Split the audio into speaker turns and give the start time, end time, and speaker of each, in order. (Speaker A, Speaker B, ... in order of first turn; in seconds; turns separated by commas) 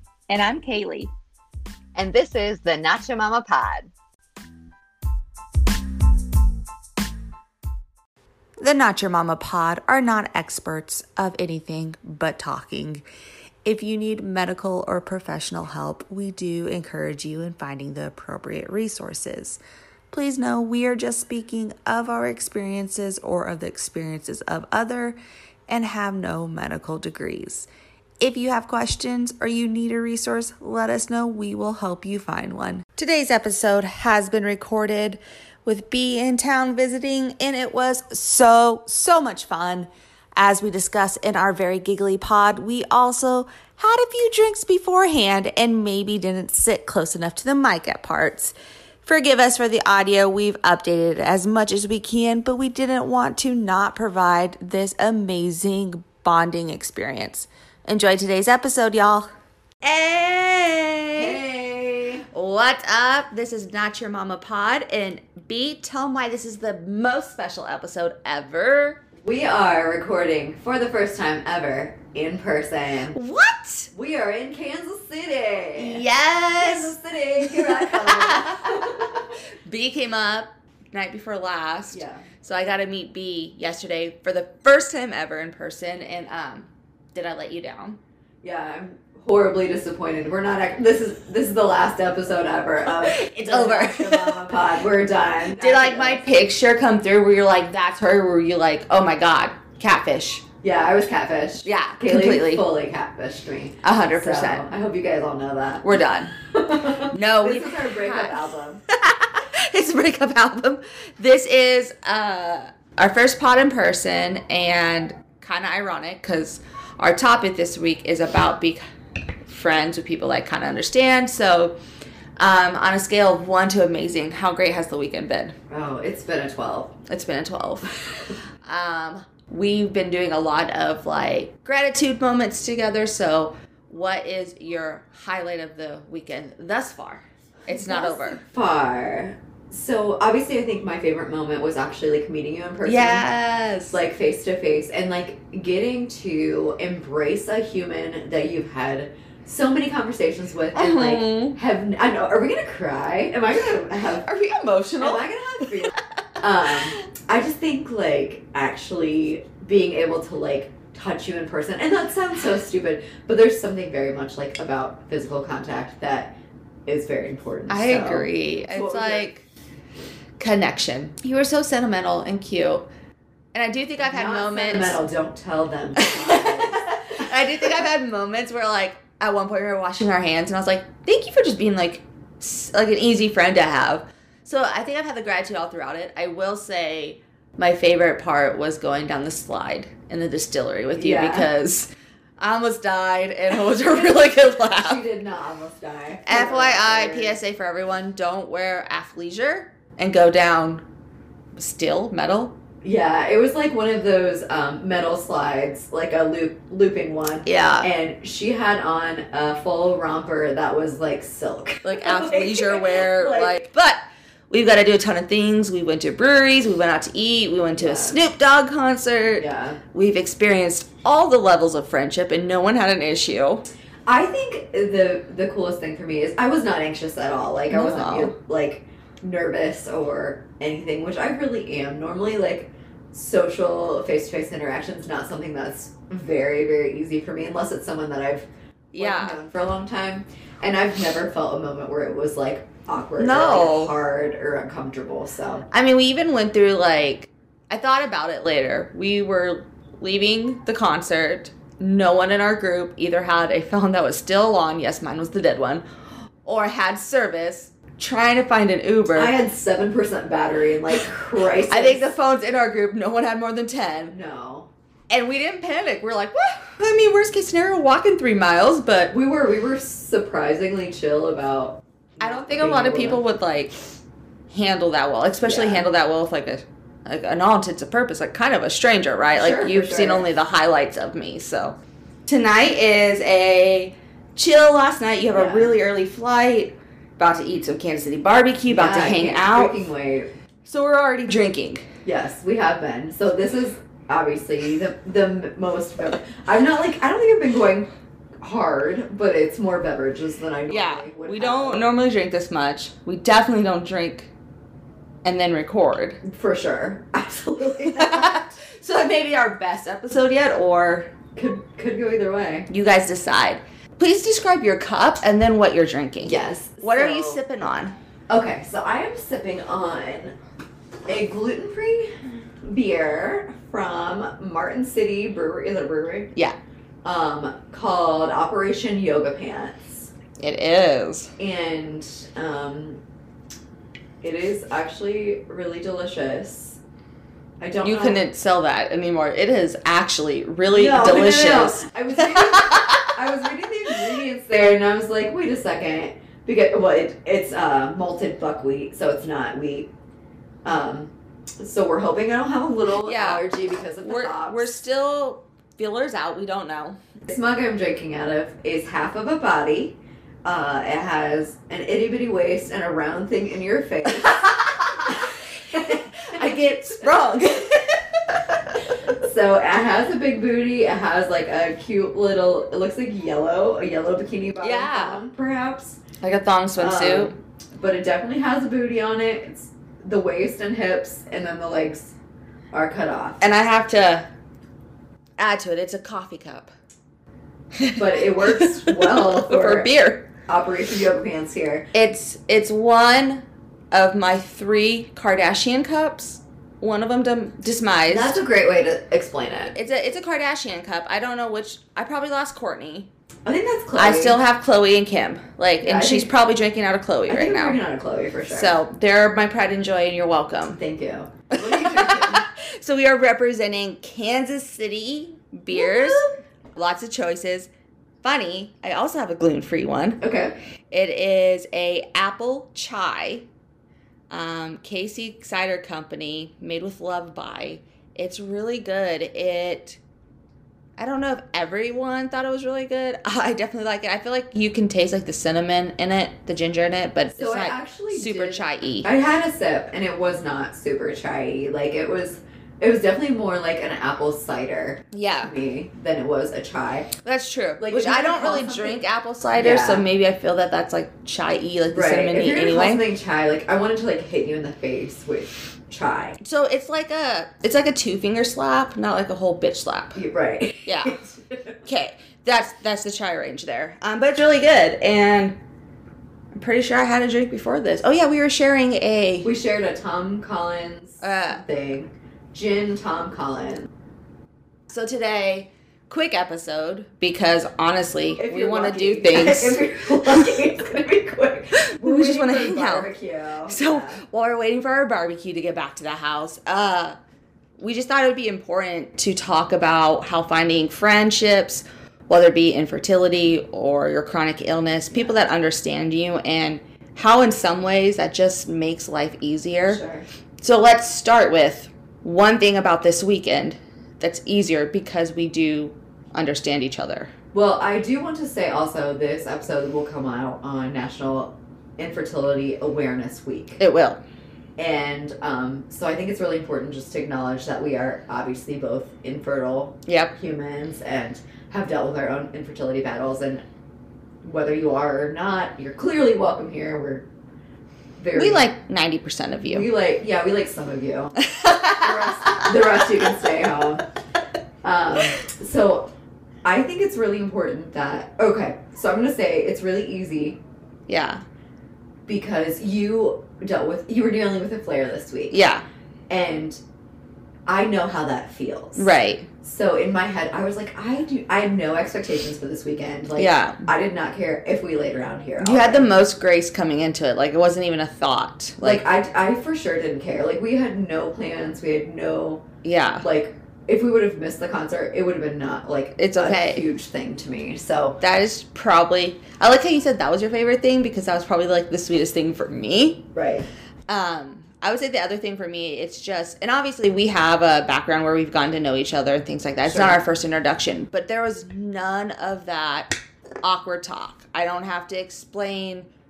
Speaker A: 0.3-1.1, Speaker A: 1.9-3.9, Speaker B: 8.6-13.0, Speaker B: 13.6-19.6, Speaker B: 20.1-27.7, Speaker B: 28.2-59.3, Speaker B: 59.8-61.4, Speaker A: 61.1-62.2, Speaker B: 62.3-69.0, Speaker A: 69.2-73.2, Speaker B: 73.1-73.9, Speaker A: 73.9-79.3, Speaker B: 75.8-79.0, Speaker B: 79.6-88.0, Speaker A: 81.9-82.2, Speaker A: 88.4-96.2, Speaker B: 92.8-94.5, Speaker B: 95.5-100.4, Speaker A: 100.6-108.8, Speaker B: 101.6-102.6, Speaker B: 103.8-104.6, Speaker B: 105.8-106.3, Speaker B: 107.1-118.8, Speaker B: 119.5-121.7, Speaker B: 122.4-125.5, Speaker A: 125.7-126.9, Speaker B: 127.1-138.4, Speaker A: 137.7-143.2, Speaker B: 142.8-144.0, Speaker A: 143.9-154.3, Speaker B: 150.7-151.6, Speaker B: 154.2-155.7, Speaker A: 155.0-166.3, Speaker B: 156.6-157.0, Speaker A: 166.9-169.3, Speaker B: 167.7-169.4, Speaker B: 170.4-172.8, Speaker B: 173.5-175.0, Speaker A: 174.0-177.7, Speaker B: 176.0-195.0, Speaker A: 190.9-191.5, Speaker A: 193.9-197.4, Speaker B: 196.2-200.8, Speaker B: 201.6-202.5, Speaker A: 202.8-213.7, Speaker B: 207.4-207.9, Speaker B: 211.8-223.6, Speaker A: 217.8-218.2, Speaker A: 219.4-219.8, Speaker A: 224.1-245.7, Speaker B: 227.7-228.3, Speaker B: 238.9-239.4, Speaker B: 243.2-243.9, Speaker B: 245.7-255.8, Speaker B: 256.4-259.3, Speaker A: 259.1-262.0, Speaker B: 261.7-264.1, Speaker A: 264.1-264.7, Speaker B: 265.1-269.1, Speaker A: 269.1-273.2, Speaker B: 272.2-273.7, Speaker B: 274.5-289.7, Speaker A: 275.4-275.9, Speaker A: 279.3-280.3, Speaker A: 285.3-285.8, Speaker A: 288.7-290.3, Speaker B: 290.6-291.9, Speaker A: 292.0-297.9, Speaker A: 298.4-301.9, Speaker B: 300.7-304.3, Speaker B: 305.2-306.2, Speaker A: 306.2-308.6, Speaker B: 307.9-311.1, Speaker A: 311.4-312.7, Speaker B: 312.7-317.9, Speaker A: 316.2-317.4, Speaker A: 318.3-320.3, Speaker A: 321.1-326.3, Speaker A: 327.0-330.1, Speaker B: 330.4-331.3, Speaker A: 331.4-333.0, Speaker A: 334.2-336.8, Speaker A: 337.6-338.2, Speaker B: 337.8-343.1, Speaker A: 340.7-349.9, Speaker A: 350.6-354.7, Speaker B: 353.0-353.4, Speaker B: 354.0-357.0, Speaker A: 357.3-367.1, Speaker B: 365.7-368.9, Speaker A: 369.0-376.0, Speaker B: 374.6-375.2, Speaker B: 376.2-377.3, Speaker A: 376.8-382.1, Speaker A: 382.7-383.4, Speaker B: 383.4-384.3, Speaker B: 385.4-386.7, Speaker B: 387.7-390.3, Speaker A: 387.9-389.9, Speaker A: 390.5-391.9, Speaker B: 391.9-398.3, Speaker A: 398.1-399.7, Speaker B: 399.7-403.1, Speaker A: 403.4-404.4, Speaker B: 403.9-407.8, Speaker A: 405.8-406.3, Speaker A: 407.3-408.8, Speaker B: 408.5-410.8, Speaker A: 410.7-412.4, Speaker B: 411.5-416.2, Speaker A: 415.7-416.4, Speaker B: 416.7-417.7, Speaker B: 418.2-420.2, Speaker A: 420.2-420.5, Speaker B: 420.9-423.4, Speaker B: 424.3-430.0, Speaker B: 431.0-439.1, Speaker A: 437.3-447.1, Speaker B: 445.1-445.5, Speaker B: 447.2-453.0, Speaker A: 447.8-449.0, Speaker A: 449.5-450.1, Speaker A: 451.9-456.4, Speaker B: 456.4-460.2, Speaker A: 460.1-461.7, Speaker B: 460.8-461.2, Speaker B: 461.8-465.6, Speaker B: 466.5-469.5, Speaker A: 469.4-473.9, Speaker B: 471.2-471.6, Speaker B: 474.9-480.5, Speaker A: 478.4-484.2, Speaker B: 481.8-483.1, Speaker B: 483.7-487.2, Speaker B: 487.8-500.0, Speaker A: 499.9-500.2, Speaker B: 500.6-507.3, Speaker A: 507.5-513.8, Speaker B: 513.8-514.2, Speaker A: 514.8-523.6, Speaker B: 520.0-520.3, Speaker A: 524.4-527.2, Speaker A: 528.2-528.7, Speaker B: 528.3-529.9, Speaker A: 529.6-531.4, Speaker B: 531.4-533.3, Speaker A: 531.9-534.0, Speaker A: 534.8-536.1, Speaker A: 536.6-540.6, Speaker B: 541.1-541.4, Speaker A: 542.3-545.6, Speaker B: 545.5-545.8, Speaker A: 546.3-546.8, Speaker A: 547.6-549.1, Speaker B: 549.0-549.5, Speaker A: 549.6-556.1, Speaker B: 553.4-553.9, Speaker B: 555.6-559.0, Speaker A: 558.8-562.6, Speaker B: 562.8-563.2, Speaker A: 563.2-568.2, Speaker B: 566.2-566.8, Speaker B: 568.2-573.3, Speaker A: 573.3-573.7, Speaker B: 574.1-586.1, Speaker A: 579.8-580.2